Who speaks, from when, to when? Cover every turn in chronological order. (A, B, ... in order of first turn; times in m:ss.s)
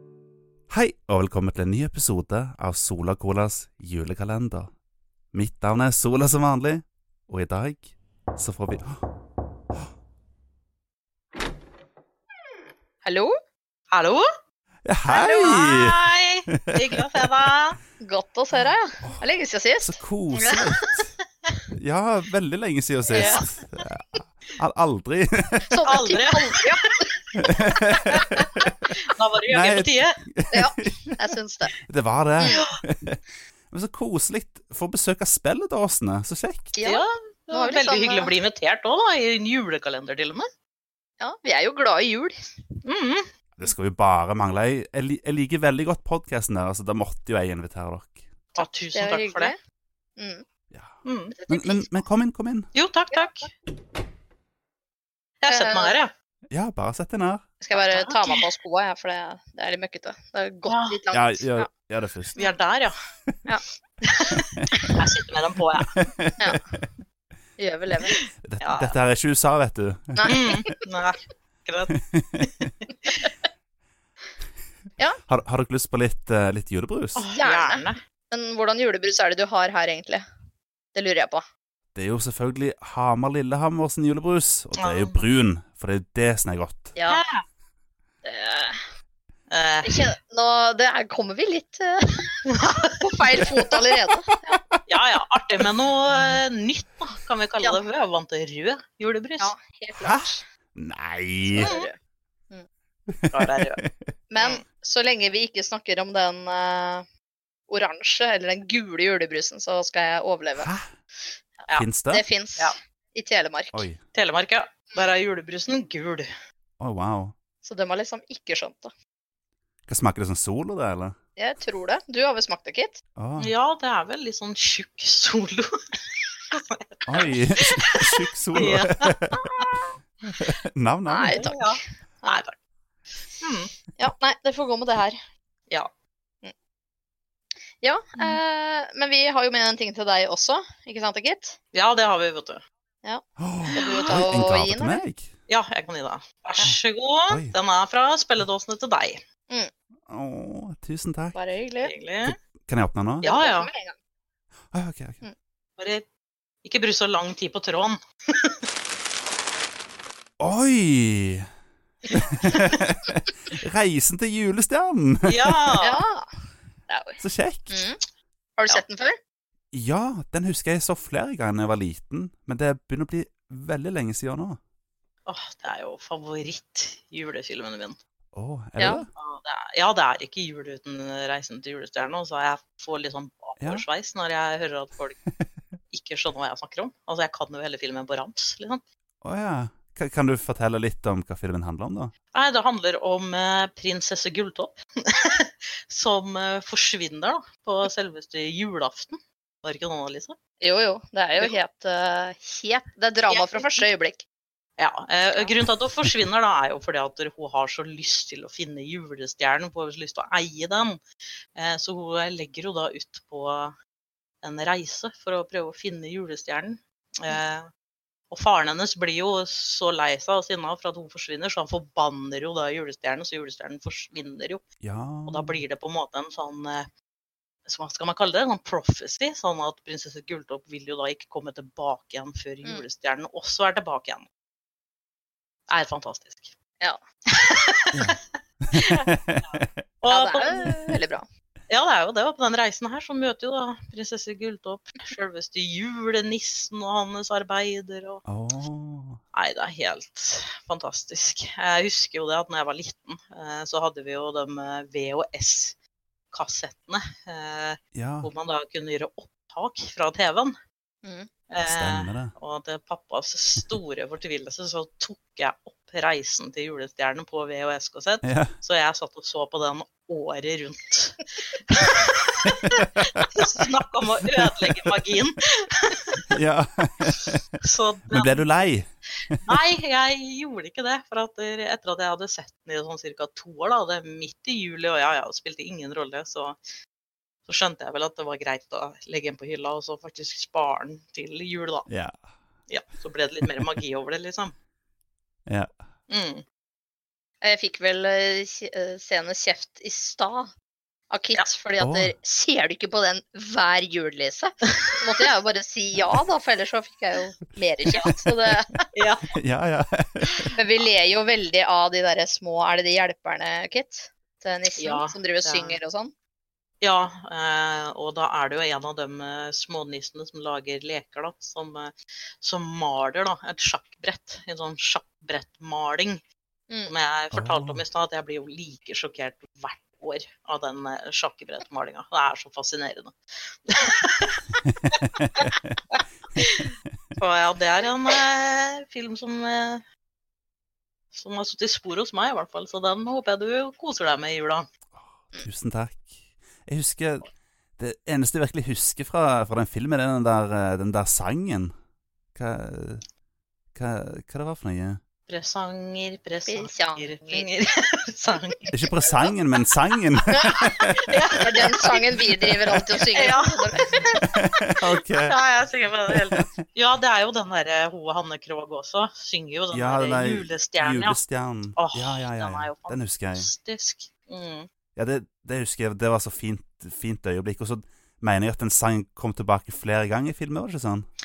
0:00.7-0:04.7 A
0:05.3-0:09.0 A
0:13.0-0:13.3 B
0:13.9-0:14.2 C
0:14.8-0:15.9 A
0:15.2-0:17.8 C
0:18.0-0:19.9 B
0:19.8-0:21.1 A
0:20.4-0:21.0 C
0:21.7-0:24.0 A
0:23.1-0:23.4 B
0:23.1-0:23.5 C
0:24.6-0:25.7 A
0:25.6-0:27.8 B
0:25.8-0:26.9 C
0:27.4-0:28.5 A
0:28.2-0:30.2 C
0:29.5-0:31.2 A
0:30.5-0:31.7 B
0:31.8-0:36.7 A
0:36.8-0:38.3 B
0:36.8-0:40.5 C
0:41.2-0:42.4 B
0:42.8-0:43.2 C
0:43.6-0:48.2 A
0:48.5-0:49.5 C
0:48.6-0:49.6 B
0:50.2-0:50.4 B
0:50.7-0:51.0 A
0:51.0-0:51.3 C
0:51.3-0:52.0 B
0:51.5-0:52.7 A
0:52.7-0:53.5 C
0:53.1-0:53.4 B
0:55.4-0:56.1 C
0:55.5-0:55.9 B
0:56.5-0:57.4 A
0:57.6-1:01.7 B
0:57.7-0:58.4 C
1:00.6-1:01.0 C
1:01.1-1:02.4 A
1:02.3-1:02.6 B
1:02.4-1:03.0 C
1:04.1-1:04.4 C
1:04.7-1:05.0 B
1:05.0-1:05.9 C
1:06.0-1:06.6 A
1:07.6-1:08.2 B
1:08.1-1:09.0 C
1:08.4-1:10.3 A
1:10.1-1:10.8 B
1:10.2-1:13.3 C
1:12.1-1:12.4 A
1:15.3-1:17.2 A
1:17.1-1:18.0 C
1:17.2-1:20.2 B
1:20.9-1:21.4 B
1:21.9-1:26.9 A
1:24.8-1:25.2 C
1:27.0-1:27.2 B
1:27.0-1:27.4 C
1:28.2-1:28.8 B
1:29.5-1:30.1 C
1:29.8-1:32.4 B
1:32.6-1:32.8 C
1:33.0-1:34.6 B
1:34.9-1:39.5 C
1:39.4-1:40.4 B
1:39.9-1:41.7 A
1:41.4-1:42.0 B
1:41.6-1:41.9 C
1:43.1-1:44.1 A
1:43.3-1:43.8 C
1:44.3-1:47.0 B
1:47.7-1:50.7 B
1:50.6-1:50.8 A
1:51.7-1:52.2 A
1:52.1-1:53.9 B
1:53.7-1:54.0 A
1:54.1-1:56.3 C
1:56.8-1:57.3 A
1:57.6-1:58.9 B
1:59.9-2:01.2 A
2:01.4-2:03.0 B
2:03.2-2:03.5 A
2:03.4-2:05.7 C
2:06.5-2:09.7 C
2:07.0-2:09.4 A
2:10.3-2:11.5 A
2:11.0-2:12.4 B
2:11.3-2:12.5 C
2:13.4-2:13.7 C
2:14.0-2:15.2 B
2:17.8-2:21.6 B
2:21.7-2:22.6 C
2:23.0-2:25.1 B
2:23.4-2:25.3 A
2:23.7-2:24.3 C
2:25.5-2:29.2 C
2:27.3-2:27.5 A
2:30.1-2:31.4 A
2:31.3-2:31.9 B
2:31.8-2:32.3 C
2:32.2-2:33.3 A
2:33.2-2:34.0 B
2:33.2-2:33.7 C
2:34.7-2:35.2 A
2:35.8-2:36.0 C
2:36.6-2:38.5 C
2:40.4-2:41.4 A
2:42.1-2:45.4 A
2:45.2-2:46.0 C
2:45.8-2:46.3 B
2:46.9-2:48.0 B
2:47.2-2:47.9 A
2:48.6-2:49.2 B
2:49.7-2:54.6 A
2:55.2-2:58.0 C
2:58.3-2:59.1 A
2:58.8-2:59.0 B
2:59.2-3:05.2 C
3:05.9-3:08.8 C
3:09.2-3:12.1 A
3:12.3-3:20.4 C
3:20.6-3:24.2 B
3:23.3-3:23.8 C
3:24.8-3:31.0 C
3:31.6-3:33.7 C
3:34.4-3:37.7 C
3:38.3-3:44.6 C
3:44.8-3:45.6 A
3:45.2-3:46.9 C
3:47.6-3:54.2 C
3:55.7-3:56.5 C
3:57.4-3:58.2 C
3:58.7-3:59.8 A
3:58.7-4:00.8 C
4:00.1-4:01.3 B
4:01.7-4:08.2 C
4:08.2-4:09.2 A
4:09.3-4:15.7 C
4:16.3-4:20.5 C
4:17.9-4:18.3 A
4:21.0-4:21.3 B
4:21.5-4:36.4 C
4:21.7-4:22.3 A
4:28.2-4:28.5 A
4:36.3-4:37.4 A
4:37.6-4:38.5 C
4:38.1-4:38.9 A
4:39.4-4:46.6 C
4:47.4-4:51.9 C
4:51.9-4:52.2 A
4:52.7-4:54.5 C
4:56.1-4:56.4 C
4:57.4-5:00.5 B
5:01.1-5:08.8 B
5:01.8-5:02.1 A
5:08.9-5:09.3 C
5:09.4-5:10.4 A
5:10.5-5:16.1 B
5:14.8-5:15.8 C
5:16.8-5:26.2 C
5:26.9-5:33.1 C
5:27.3-5:27.8 A
5:33.7-5:39.8 C
5:35.2-5:35.7 A
5:41.1-5:44.7 C
5:45.0-5:47.3 A
5:47.8-5:51.7 A
5:52.3-5:53.0 A
5:53.7-5:55.0 A
5:55.3-5:59.3 C
5:56.5-5:57.5 B
5:58.7-6:00.9 A
6:00.3-6:00.7 B
6:00.3-6:02.0 C
6:01.3-6:04.0 B
6:03.1-6:04.3 C
6:04.4-6:05.4 A
6:05.2-6:11.2 C
6:06.1-6:06.5 A
6:09.7-6:13.5 A
6:11.8-6:14.7 C
6:14.9-6:21.1 A